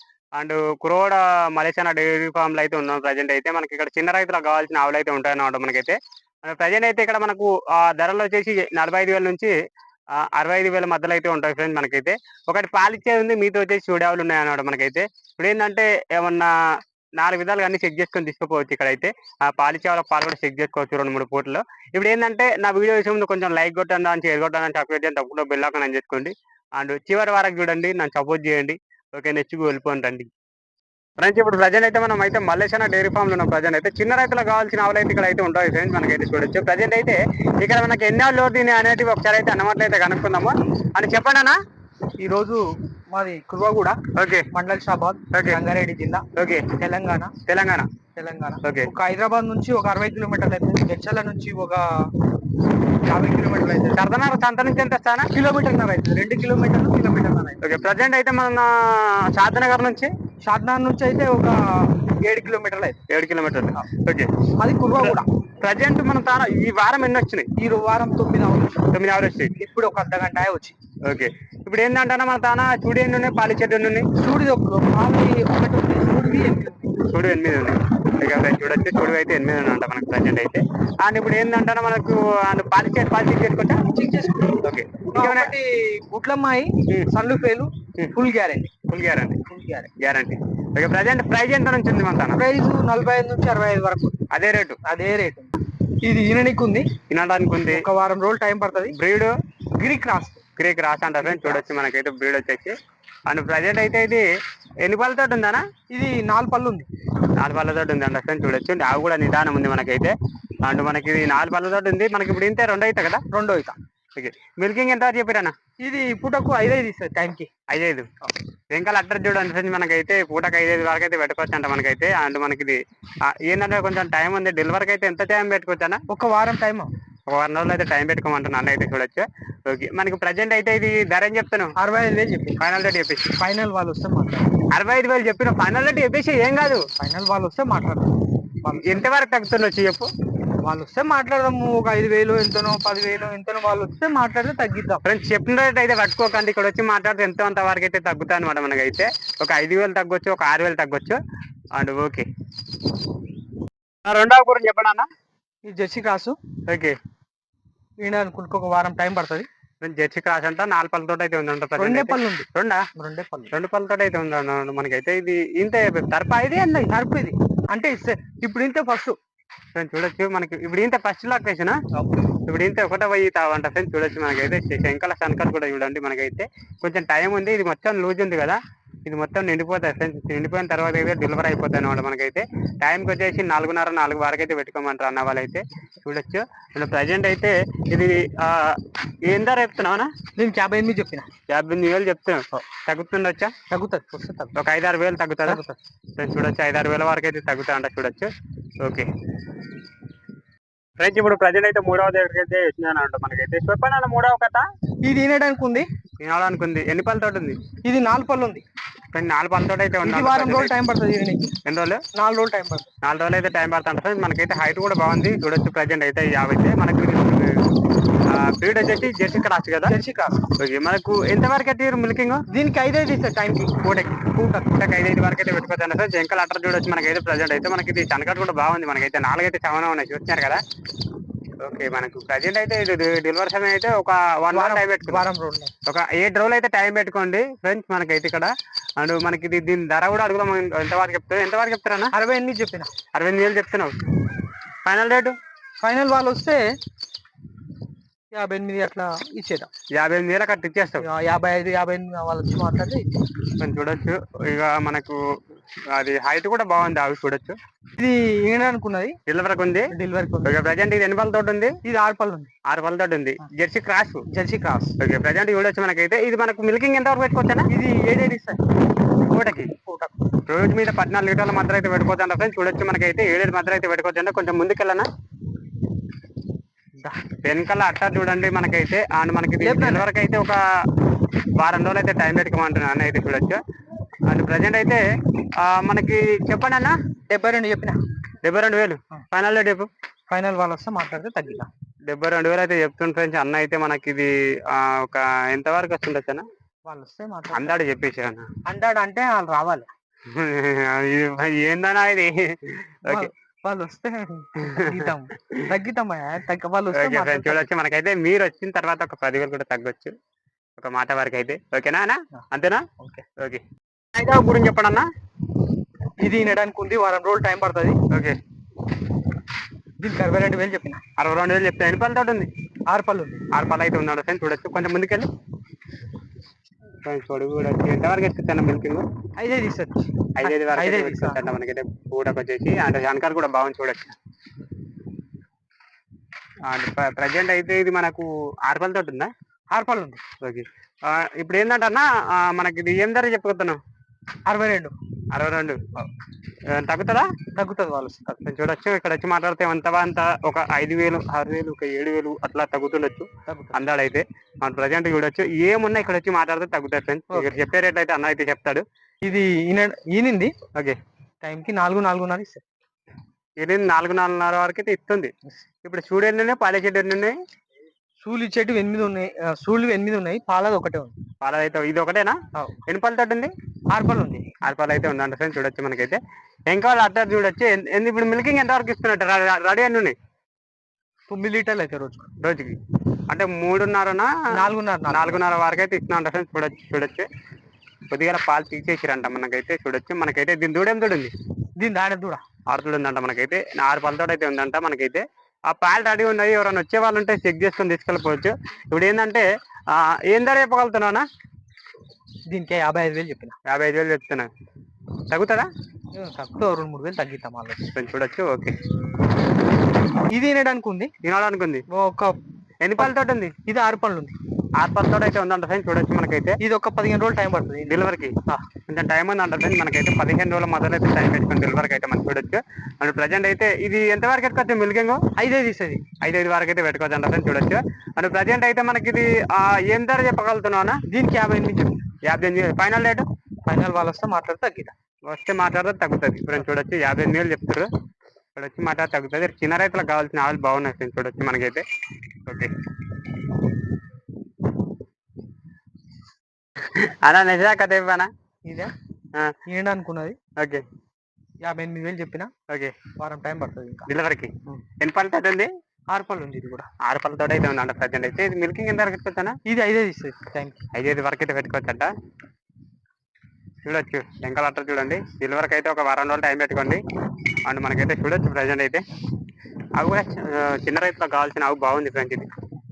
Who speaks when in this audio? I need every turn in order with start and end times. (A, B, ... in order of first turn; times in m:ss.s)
0:00.4-0:09.5 A
0:10.3-0:16.5 A
0:17.2-0:30.3 A
0:31.2-0:41.6 A
0:42.2-0:44.0 B
0:44.1-0:44.5 A
0:44.5-0:46.2 B
0:45.3-0:45.6 A
0:46.4-0:46.7 A
0:46.8-0:47.3 B
0:47.4-0:47.9 A
0:48.2-0:51.9 B
0:48.6-0:48.9 A
0:53.0-0:54.0 B
0:53.9-0:55.3 A
0:55.3-0:57.6 B
0:57.6-1:00.1 A
1:00.4-1:03.0 B
1:03.1-1:04.3 A
1:04.6-1:05.3 B
1:05.0-1:07.5 A
1:07.6-1:08.8 B
1:08.9-1:09.6 A
1:09.6-1:10.8 B
1:11.1-1:14.1 A
1:14.2-1:16.9 B
1:17.0-1:23.8 A
1:23.8-1:28.7 B
1:24.5-1:25.5 A
1:28.9-1:29.4 A
1:29.5-1:29.9 B
1:30.0-1:32.4 A
1:32.3-1:34.2 B
1:34.3-1:34.8 A
1:34.8-1:36.9 B
1:37.1-1:37.8 A
1:37.7-1:38.9 B
1:38.9-1:39.3 A
1:39.8-1:40.4 B
1:40.6-1:42.7 A
1:41.2-1:41.7 B
1:43.3-1:44.2 A
1:44.8-1:45.6 A
1:45.9-1:46.9 B
1:47.4-1:53.2 A
1:53.3-1:53.8 B
1:54.2-1:55.5 A
1:55.8-1:57.5 B
1:57.7-1:58.1 A
1:58.7-2:06.0 A
2:06.1-2:06.9 B
2:07.3-2:11.7 A
2:11.8-2:12.6 B
2:12.6-2:13.3 A
2:13.4-2:14.5 B
2:14.7-2:16.8 A
2:17.0-2:19.1 B
2:18.7-2:20.1 A
2:20.6-2:25.0 B
2:25.0-2:31.2 A
2:31.8-2:32.2 A
2:34.0-2:35.1 A
2:35.6-2:36.4 B
2:36.7-2:37.0 A
2:38.0-2:39.5 B
2:39.8-2:42.9 A
2:41.8-2:43.5 B
2:43.5-2:46.9 A
2:46.8-2:49.2 B
2:49.7-2:51.8 A
2:51.9-2:52.2 B
2:52.5-3:10.1 A
3:10.4-3:11.3 B
3:11.5-3:13.5 A
3:13.7-3:14.5 B
3:14.5-3:15.6 A
3:15.4-3:15.8 B
3:16.2-3:18.3 A
3:18.8-3:19.1 A
3:21.0-3:24.6 A
3:25.0-3:25.9 B
3:26.2-3:27.6 A
3:27.8-3:28.6 B
3:29.1-3:30.7 A
3:30.0-3:31.5 B
3:31.6-3:32.0 A
3:32.1-3:32.9 B
3:33.0-3:37.5 A
3:38.3-3:39.9 A
3:39.8-3:40.4 B
3:40.6-3:42.4 A
3:42.5-3:44.8 B
3:44.7-3:50.6 A
3:51.6-3:55.2 A
3:54.5-3:55.7 B
3:55.8-4:02.1 A
4:02.1-4:02.9 B
4:03.1-4:03.9 A
4:04.8-4:05.4 A
4:05.8-4:06.6 B
4:08.3-4:09.7 B
4:10.0-4:11.1 A
4:11.0-4:13.1 B
4:13.6-4:15.2 A
4:15.9-4:17.6 A
4:18.0-4:19.2 B
4:19.3-4:19.9 A
4:19.9-4:20.5 B
4:20.4-4:21.7 A
4:21.8-4:22.5 B
4:22.7-4:24.2 A
4:24.3-4:25.0 B
4:25.0-4:27.7 A
4:27.7-4:28.6 B
4:29.3-4:29.7 A
4:29.7-4:30.2 B
4:30.5-4:35.1 A
4:37.4-4:40.6 A
4:39.6-4:40.1 B
4:41.6-4:43.6 A
4:44.3-4:45.0 A
4:45.6-4:47.0 A
4:47.3-4:48.0 B
4:48.4-4:49.9 A
4:50.3-4:51.7 B
4:52.1-4:56.4 A
4:56.8-4:57.8 B
4:57.5-4:58.5 A
4:58.7-4:59.9 B
5:00.3-5:03.3 A
5:03.1-5:07.6 B
5:06.9-5:10.2 A
5:10.8-5:12.8 A
5:13.0-5:13.2 B
5:13.4-5:13.6 A
5:14.2-5:15.1 A
5:16.2-5:18.0 B
5:18.1-5:18.4 A
5:20.0-5:21.0 B
5:21.2-5:22.5 A
5:22.9-5:23.4 B
5:23.5-5:25.3 A
5:27.0-5:29.0 A
5:29.4-5:31.5 B
5:30.4-5:34.2 A
5:36.7-5:39.3 A
5:39.7-5:40.2 B
5:40.4-5:43.8 A
5:44.5-5:44.9 B
5:45.3-5:45.8 A
5:46.7-5:47.3 A
5:47.6-5:48.4 B
5:48.4-5:58.8 A
5:53.5-5:53.8 B
5:59.2-6:00.5 B
6:01.4-6:02.6 B
6:03.6-6:05.3 A
6:05.8-6:07.3 A
6:08.2-6:11.1 B
6:11.4-6:12.4 A
6:12.9-6:13.5 A
6:13.9-6:14.4 B
6:14.6-6:20.2 A
6:21.3-6:22.3 B
6:22.4-6:22.8 A
6:23.3-6:24.3 A
6:24.5-6:25.4 B
6:25.1-6:27.3 A
6:28.1-6:31.3 A
6:31.8-6:32.4 B
6:32.7-6:41.2 A
6:42.5-6:43.6 B
6:43.7-6:44.5 A
6:45.3-6:45.7 A
6:46.2-6:47.8 B
6:47.9-6:48.7 A
6:50.3-6:51.1 B
6:51.2-6:51.8 A
6:51.9-6:52.4 B
6:52.8-6:53.5 A
6:53.7-6:54.4 B
6:54.8-6:56.6 A
6:56.6-6:58.0 B
6:57.9-7:05.2 A
7:05.4-7:06.0 B
7:06.2-7:11.0 A
7:11.1-7:12.0 B
7:12.3-7:13.2 A
7:13.7-7:14.9 B
7:15.3-7:17.9 A
7:18.6-7:21.8 A
7:22.5-7:22.7 A
7:27.0-7:28.3 A
7:28.7-7:28.9 B
7:29.7-7:30.4 B
7:30.6-7:30.8 A
7:31.6-7:32.5 B
7:32.7-7:33.0 A
7:33.2-7:34.1 B
7:34.1-7:35.7 A
7:36.1-7:36.9 B
7:37.0-7:39.6 A
7:39.7-7:40.8 B
7:40.9-7:42.1 A
7:43.8-7:47.0 A
7:47.7-7:49.0 A
7:50.0-7:52.5 A